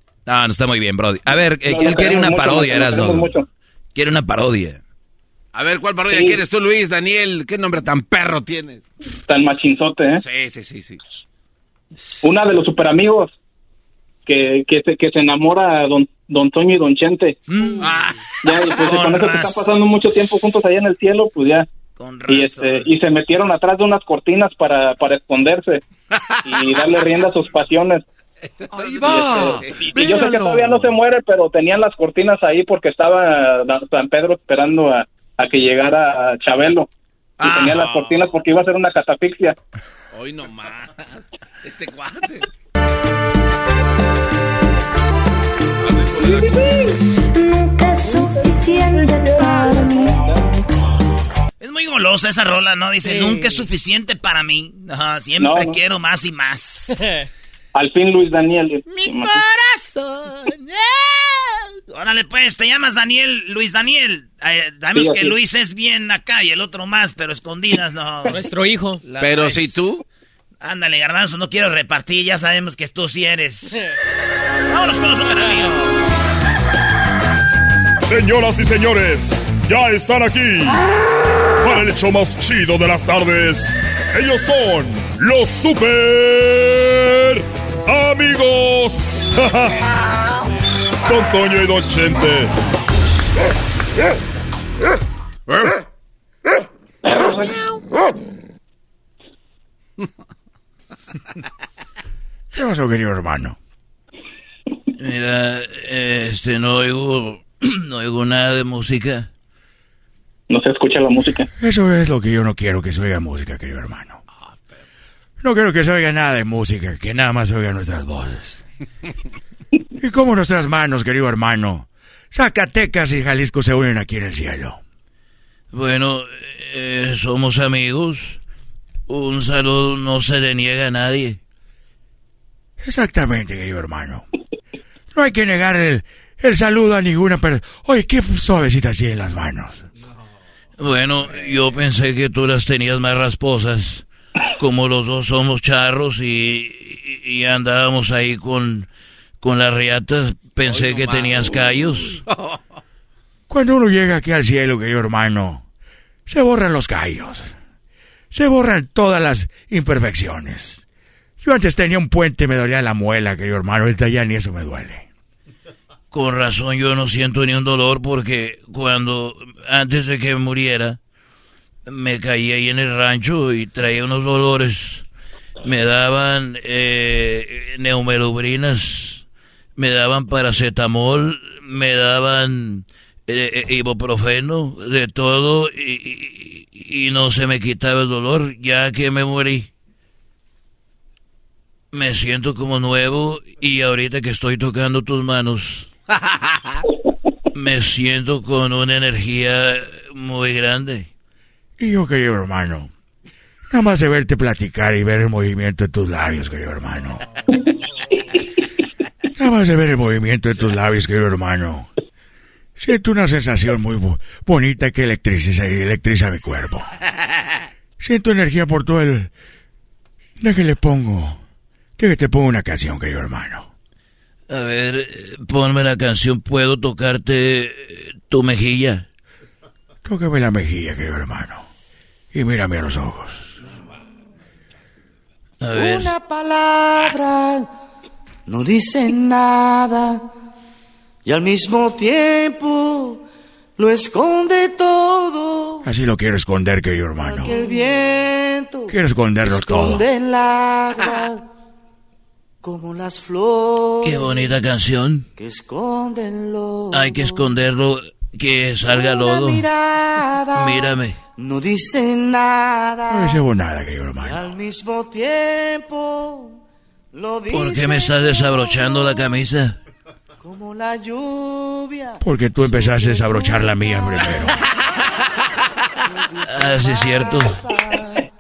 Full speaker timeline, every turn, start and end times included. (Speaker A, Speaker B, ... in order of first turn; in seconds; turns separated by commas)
Speaker A: 0.3-3.3, Speaker B: 1.6-3.5, Speaker A: 4.0-4.8, Speaker C: 5.5-8.8, Speaker B: 6.1-6.4, Speaker B: 9.3-10.2, Speaker C: 10.2-11.0, Speaker B: 12.2-13.3, Speaker B: 14.3-17.4, Speaker D: 17.5-18.1, Speaker C: 17.8-18.1, Speaker B: 18.4-21.7, Speaker D: 18.7-19.7, Speaker D: 22.0-22.9, Speaker B: 22.3-25.8, Speaker C: 26.1-26.6, Speaker B: 26.4-28.0, Speaker C: 28.6-30.8, Speaker B: 29.0-36.9, Speaker D: 37.4-37.8, Speaker B: 37.4-39.6, Speaker C: 37.6-38.2, Speaker C: 40.1-42.5, Speaker C: 45.9-46.6, Speaker E: 48.1-50.0, Speaker D: 51.6-57.0, Speaker B: 55.4-55.8, Speaker B: 57.7-59.4, Speaker D: 58.9-68.5, Speaker B: 64.9-65.4, Speaker F: 68.4-69.0, Speaker D: 69.0-69.8, Speaker C: 69.2-70.0, Speaker D: 70.6-73.8, Speaker D: 74.7-75.9, Speaker G: 78.1-80.8, Speaker G: 81.6-89.6, Speaker G: 91.1-92.5, Speaker C: 95.5-95.8, Speaker H: 102.5-103.6, Speaker F: 105.1-109.3, Speaker B: 110.5-111.5, Speaker H: 111.6-114.2, Speaker H: 115.4-118.6, Speaker H: 120.0-124.8, Speaker F: 125.7-128.4, Speaker F: 129.1-131.4, Speaker H: 132.8-134.2, Speaker H: 135.1-139.8, Speaker A: 141.2-141.7, Speaker F: 141.5-144.0, Speaker F: 144.7-148.9, Speaker F: 149.4-151.0, Speaker C: 150.6-152.6, Speaker A: 150.7-151.9, Speaker H: 153.5-155.6, Speaker H: 156.3-157.6, Speaker H: 158.3-160.8, Speaker H: 161.4-165.1, Speaker F: 166.1-171.0, Speaker F: 171.9-175.0, Speaker F: 175.7-179.2, Speaker F: 179.8-189.7, Speaker F: 191.9-195.8, Speaker F: 197.6-201.1, Speaker H: 201.8-202.9, Speaker H: 203.7-207.2, Speaker H: 209.4-211.9, Speaker H: 212.8-216.9, Speaker H: 218.0-219.3, Speaker H: 220.4-221.4, Speaker H: 222.0-223.7, Speaker F: 224.5-229.0, Speaker H: 230.1-231.7, Speaker H: 232.3-233.5, Speaker F: 235.6-236.1, Speaker I: 235.7-237.7, Speaker I: 238.5-240.3, Speaker I: 241.2-243.2, Speaker I: 243.8-245.9, Speaker H: 245.8-247.6, Speaker I: 247.2-251.5, Speaker H: 248.9-250.0, Speaker I: 252.6-254.5, Speaker F: 254.0-255.2, Speaker A: 254.1-254.6, Speaker I: 255.4-257.6, Speaker A: 256.9-257.5, Speaker F: 256.9-258.9, Speaker I: 258.8-263.4, Speaker A: 259.1-259.5, Speaker A: 260.6-261.1, Speaker F: 260.6-261.1, Speaker H: 263.1-264.5, Speaker I: 264.2-266.6, Speaker I: 267.1-269.3, Speaker F: 267.5-269.7, Speaker A: 267.7-269.5, Speaker I: 270.4-274.3, Speaker H: 272.2-274.6, Speaker I: 276.1-278.2, Speaker A: 276.6-277.5, Speaker F: 277.1-277.5